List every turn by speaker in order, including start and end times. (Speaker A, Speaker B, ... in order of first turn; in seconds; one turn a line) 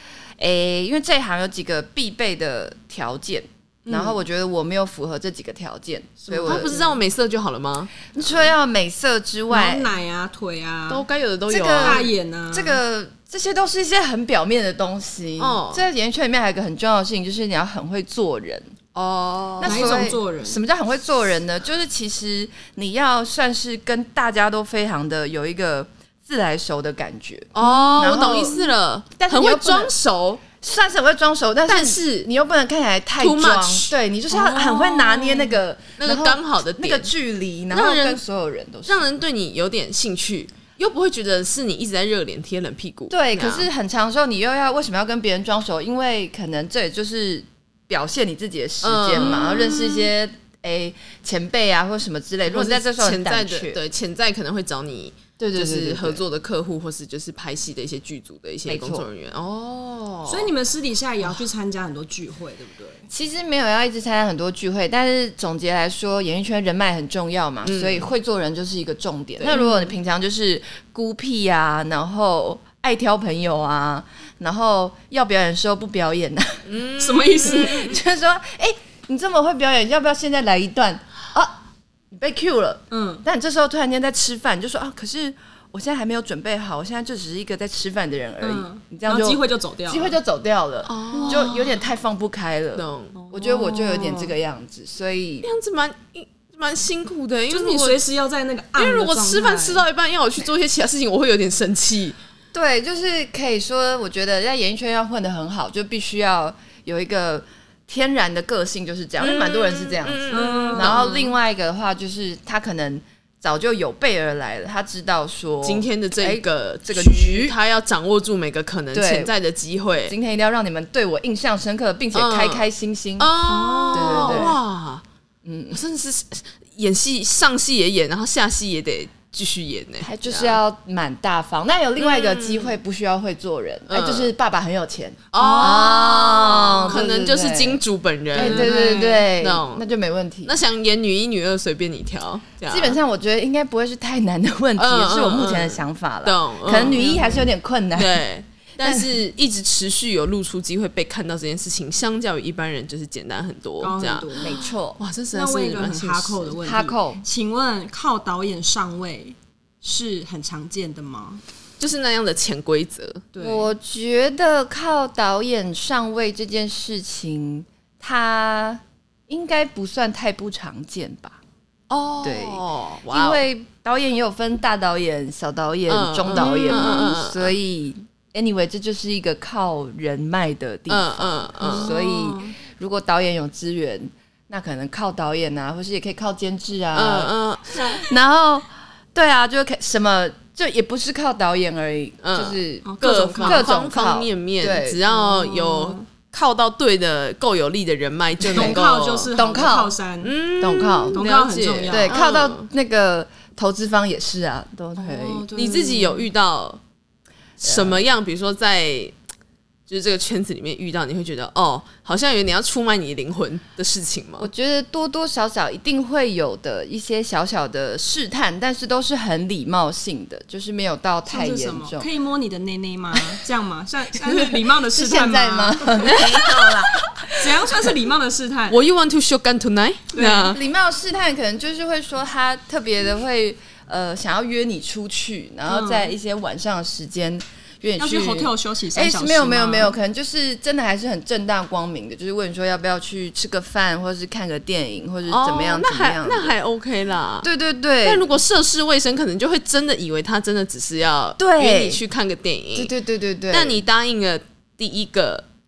Speaker A: 0.4-6.8
Speaker B: 3.9-4.2
Speaker B: 6.2-7.0
Speaker C: 6.5-7.9
Speaker A: 8.1-9.9
Speaker B: 9.5-11.1
Speaker C: 10.9-12.1
Speaker A: 11.5-18.7
Speaker B: 11.8-12.8
Speaker C: 15.4-15.8
Speaker C: 18.9-20.1
Speaker A: 19.6-29.9
Speaker B: 19.6-20.6
Speaker C: 27.5-30.4
Speaker B: 27.6-27.9
Speaker A: 30.4-39.2
Speaker C: 31.6-32.0
Speaker C: 33.2-34.0
Speaker B: 34.3-35.5
Speaker C: 36.0-37.1
Speaker C: 37.7-38.2
Speaker C: 38.8-43.7
Speaker A: 43.1-53.8
Speaker C: 48.8-50.1
Speaker C: 52.5-60.5
Speaker A: 55.4-56.2
Speaker A: 58.7-59.1
Speaker B: 60.3-63.0
Speaker A: 63.1-76.6
Speaker C: 67.6-68.1
Speaker C: 69.4-69.7
Speaker B: 69.5-69.9
Speaker C: 76.7-78.0
Speaker B: 77.0-77.8
Speaker A: 77.4-81.5
Speaker A: 82.1-95.5
Speaker B: 82.9-83.2
Speaker B: 88.4-90.2
Speaker C: 90.8-91.7
Speaker B: 91.2-91.5
Speaker C: 92.7-93.1
Speaker B: 93.1-94.3
Speaker C: 95.4-98.0
Speaker B: 97.5-99.8
Speaker C: 98.8-102.2
Speaker A: 102.5-117.5
Speaker C: 109.2-111.3
Speaker B: 110.3-111.1
Speaker C: 115.6-120.1
Speaker A: 118.9-119.3
Speaker A: 120.1-123.3
Speaker C: 122.1-122.7
Speaker C: 123.2-125.0
Speaker B: 123.5-124.5
Speaker A: 123.9-124.6
Speaker A: 125.4-125.8
Speaker C: 125.7-130.6
Speaker A: 130.0-137.8
Speaker C: 132.0-132.8
Speaker C: 133.9-134.3
Speaker C: 135.3-138.7
Speaker B: 135.3-135.9
Speaker B: 136.5-137.0
Speaker A: 138.3-140.6
Speaker B: 138.3-139.3
Speaker C: 139.4-139.8
Speaker C: 140.4-143.0
Speaker A: 142.7-148.2
Speaker C: 144.8-147.0
Speaker B: 146.7-147.5
Speaker C: 147.9-156.6
Speaker A: 148.8-149.2
Speaker B: 153.8-154.6
Speaker A: 154.3-155.0
Speaker B: 155.3-161.4
Speaker A: 156.6-157.2
Speaker C: 161.8-163.2
Speaker B: 163.3-163.7
Speaker A: 163.4-171.4
Speaker C: 171.9-173.4
Speaker A: 172.2-195.0
Speaker C: 175.9-177.5
Speaker B: 176.3-177.2
Speaker C: 180.9-181.9
Speaker B: 181.6-182.5
Speaker C: 186.9-187.9
Speaker C: 192.2-199.3
Speaker B: 192.8-193.7
Speaker B: 195.1-196.1
Speaker A: 198.4-198.8
Speaker B: 198.5-200.3
Speaker A: 199.3-200.0
Speaker C: 200.2-202.7
Speaker A: 200.6-205.5
Speaker B: 201.1-202.2
Speaker B: 205.0-206.3
Speaker C: 205.5-206.8
Speaker C: 207.6-209.1
Speaker A: 207.7-208.0
Speaker C: 209.9-214.5
Speaker A: 214.4-222.1
Speaker B: 221.2-226.2
Speaker A: 224.2-227.8
Speaker C: 226.1-226.8
Speaker B: 227.4-228.8
Speaker C: 228.7-230.6
Speaker B: 230.1-230.6
Speaker A: 230.5-246.6
Speaker B: 235.7-236.1
Speaker B: 238.0-240.0
Speaker C: 245.3-247.5
Speaker A: 247.4-248.3
Speaker C: 248.0-252.9
Speaker A: 251.4-252.0
Speaker A: 252.7-253.9
Speaker C: 253.5-255.4